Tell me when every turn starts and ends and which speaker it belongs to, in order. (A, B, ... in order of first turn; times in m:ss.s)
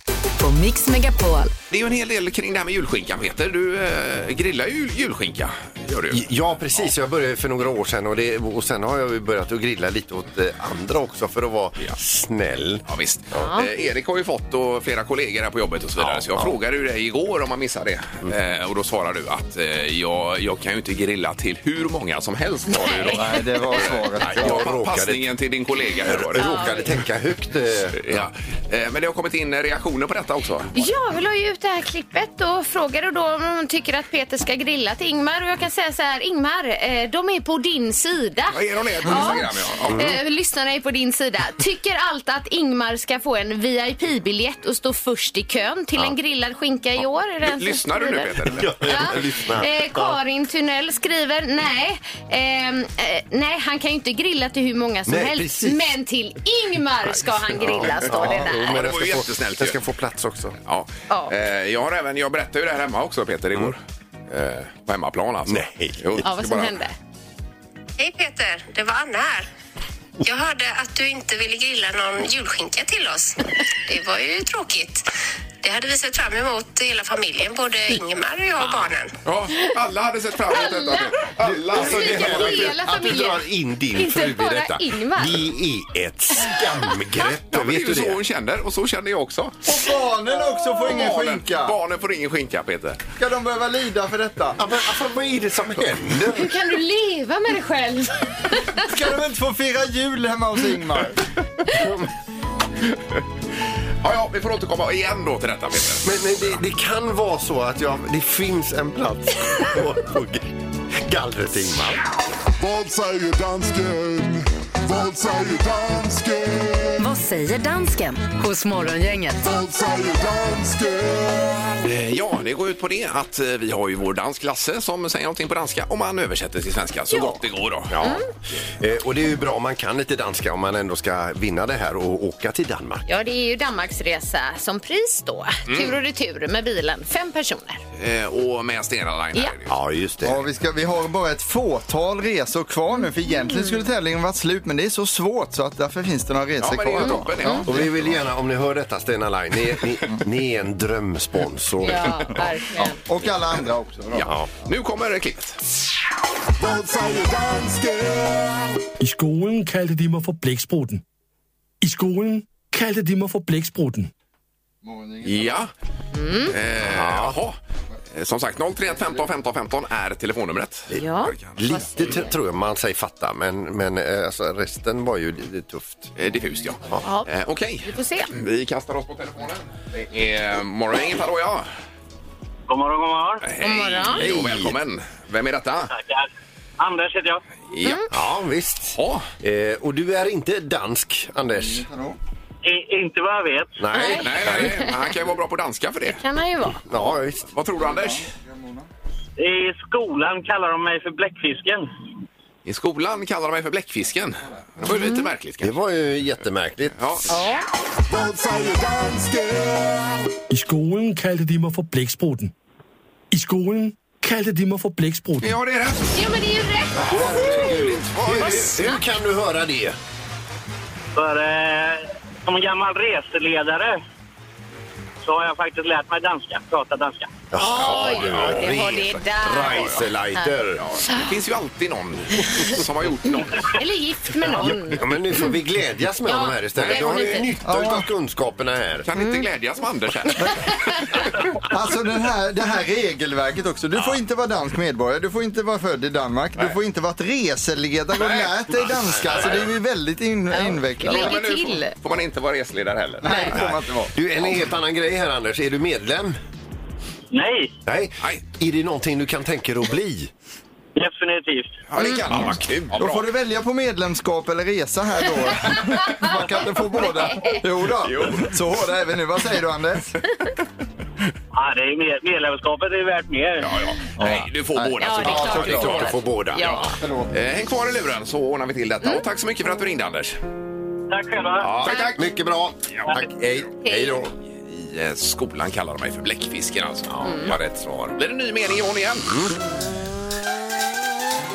0:00.4-0:01.5 A
0:01.7-0:06.2 B
0:06.1-0:12.8 C
0:12.9-0:26.4 B
0:13.4-0:13.7 D
0:16.0-0:16.6 C
0:22.7-0:23.4 D
0:23.1-0:24.6 E
0:24.2-0:25.2 C
0:26.0-0:28.3 C
0:26.3-0:26.8 D
0:27.9-0:30.7 B
0:30.7-0:58.7 D
0:38.5-0:40.1 B
0:39.8-0:40.2 C
0:47.4-0:48.7 B
0:48.5-0:50.2 C
0:55.0-0:55.9 C
0:57.3-1:00.6 C
0:58.4-0:59.8 B
1:00.6-1:06.8 B
1:05.4-1:06.2 C
1:06.2-1:06.9 D
1:08.0-1:09.5 F
1:10.2-1:15.1 F
1:15.6-1:19.1 F
1:19.2-1:22.8 B
1:20.5-1:21.1 D
1:21.5-1:28.2 C
1:21.8-1:25.5 D
1:27.5-1:29.6 B
1:29.6-1:31.8 E
1:30.8-1:33.0 B
1:33.2-1:34.6 E
1:34.6-1:36.5 C
1:36.3-1:38.8 D
1:38.8-1:41.2 E
1:41.7-1:42.1 C
1:44.0-1:46.1 B
1:46.0-1:52.1 C
1:52.6-1:57.0 G
1:57.0-1:59.4 A
1:59.4-2:01.8 G
2:01.8-2:08.0 B
2:07.9-2:08.2 C
2:08.8-2:13.0 C
2:13.1-2:17.8 D
2:15.7-2:16.0 B
2:18.0-2:19.7 B
2:19.7-2:20.4 C
2:20.2-2:27.7 E
2:23.0-2:23.8 D
2:26.6-2:28.2 B
2:27.0-2:27.6 D
2:27.6-2:32.5 C
2:31.8-2:33.0 D
2:32.8-2:34.3 E
2:34.1-2:35.6 B
2:34.2-2:34.5 C
2:36.6-2:38.8 G
2:39.0-2:41.0 H
2:41.8-2:44.1 H
2:44.8-2:45.6 E
2:45.2-2:45.7 B
2:46.1-2:46.5 D
2:46.5-2:47.6 B
2:46.8-2:47.4 C
2:48.1-2:51.6 B
2:50.9-2:52.3 D
2:51.6-2:56.1 C
2:56.2-3:01.7 B
2:57.0-2:57.3 D
2:57.8-2:58.3 D
3:02.7-3:03.4 I
3:03.4-3:05.9 B
3:03.6-3:04.2 D
3:04.2-3:04.7 C
3:05.9-3:06.3 I
3:06.8-3:07.4 I
3:07.7-3:08.0 B
3:08.1-3:11.8 C
3:08.9-3:09.3 B
3:11.6-3:12.2 E
3:12.6-3:13.8 I
3:13.8-3:14.9 C
3:13.9-3:14.9 D
3:14.1-3:16.2 B
3:16.1-3:16.8 D
3:16.8-3:17.5 C
3:16.9-3:18.3 B
3:17.8-3:18.9 E
3:19.4-3:21.9 I
3:22.6-3:25.7 B
3:24.8-3:25.3 D
3:25.6-3:27.2 C
3:27.0-3:27.3 B
3:27.3-3:27.6 D
3:28.0-3:30.3 G
3:30.5-3:32.5 H
3:33.3-3:35.6 H
3:35.4-3:36.2 B
3:36.1-3:37.7 D
3:37.0-3:38.8 B
3:37.0-3:40.0 C
3:38.5-3:39.0 D
3:41.1-3:44.0 I
3:45.2-3:47.3 I
3:47.5-3:50.8 C
3:47.6-3:50.5 D
3:47.7-3:48.8 B
3:49.6-3:50.0 B
3:50.8-3:53.7 B
3:53.3-3:55.5 D
3:54.4-3:59.1 C
3:56.2-3:57.5 D
3:56.8-3:57.5 B
3:57.6-3:58.0 E
3:59.0-4:01.2 B
3:59.2-3:59.4 D
4:00.3-4:00.8 D
4:01.6-4:11.4 E
4:08.1-4:09.7 B
4:10.5-4:11.9 D
4:11.0-4:13.7 B
4:13.2-4:14.1 E
4:13.2-4:13.5 D
4:13.5-4:16.4 C
4:17.3-4:17.7 I
4:17.8-4:20.3 C
4:21.0-4:21.8 I
4:21.9-4:23.3 B
4:22.0-4:22.2 D
4:23.0-4:30.2 E
4:26.9-4:27.6 D
4:28.0-4:28.5 B
4:31.5-4:33.7 I
4:33.6-4:36.8 B
4:34.2-4:36.1 E
4:35.0-4:36.9 D
4:35.6-4:37.0 C
4:36.9-4:37.3 E
4:37.3-4:40.4 B
4:41.1-4:41.7 I
4:41.6-4:44.3 C
4:41.8-4:42.2 B
4:41.9-4:42.1 D
4:43.8-4:44.2 D
4:44.5-4:47.6 B
4:47.1-4:48.2 C
4:47.2-4:47.5 D
4:48.1-4:49.6 B